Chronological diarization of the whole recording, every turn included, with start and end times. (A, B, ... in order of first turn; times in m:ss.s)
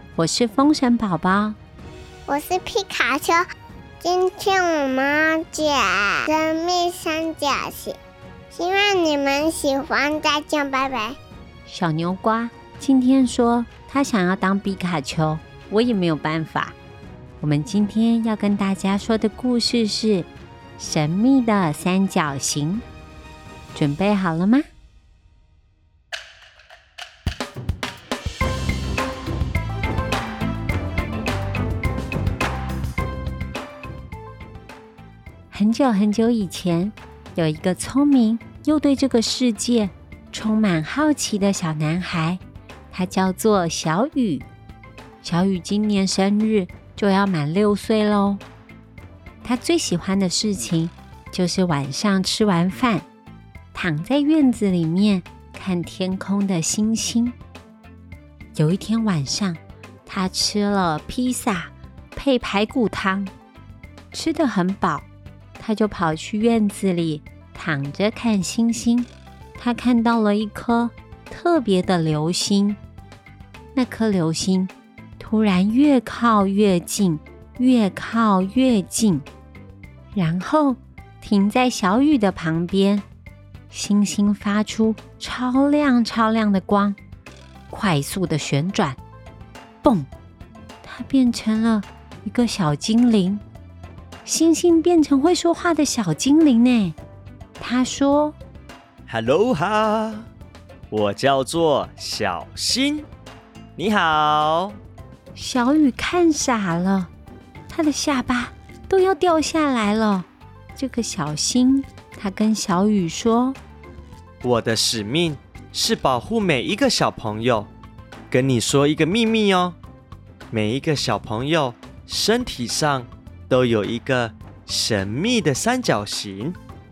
0:00.2-0:01.6 A
0:02.3-0:03.5 B
0:04.0-0:08.0 B
0:08.5-0:11.2 B
0:11.7-0:16.8 A
0:17.4-0:22.8 A
0:23.7-0:24.7 A
0:35.5-0:42.4 A
0:42.9-0:44.5 A
0:45.2-0:48.4 A
0:49.4-0:53.1 A
0:53.7-0:57.4 A
0:58.6-1:03.3 A
1:04.1-1:05.1 A
1:05.6-1:12.8 A
1:13.8-1:19.3 A
1:20.1-1:23.0 A
1:23.7-1:27.0 A
1:27.7-1:29.0 A
1:29.8-1:30.1 A
1:30.8-1:33.4 A
1:34.2-1:37.0 A
1:37.6-1:38.4 A
1:39.1-1:40.3 C
1:40.9-1:43.1 C
1:43.8-1:44.8 C
1:45.4-1:47.1 A
1:47.7-1:53.6 A
1:54.4-1:57.7 C
1:58.3-1:59.8 C
2:00.5-2:06.6 C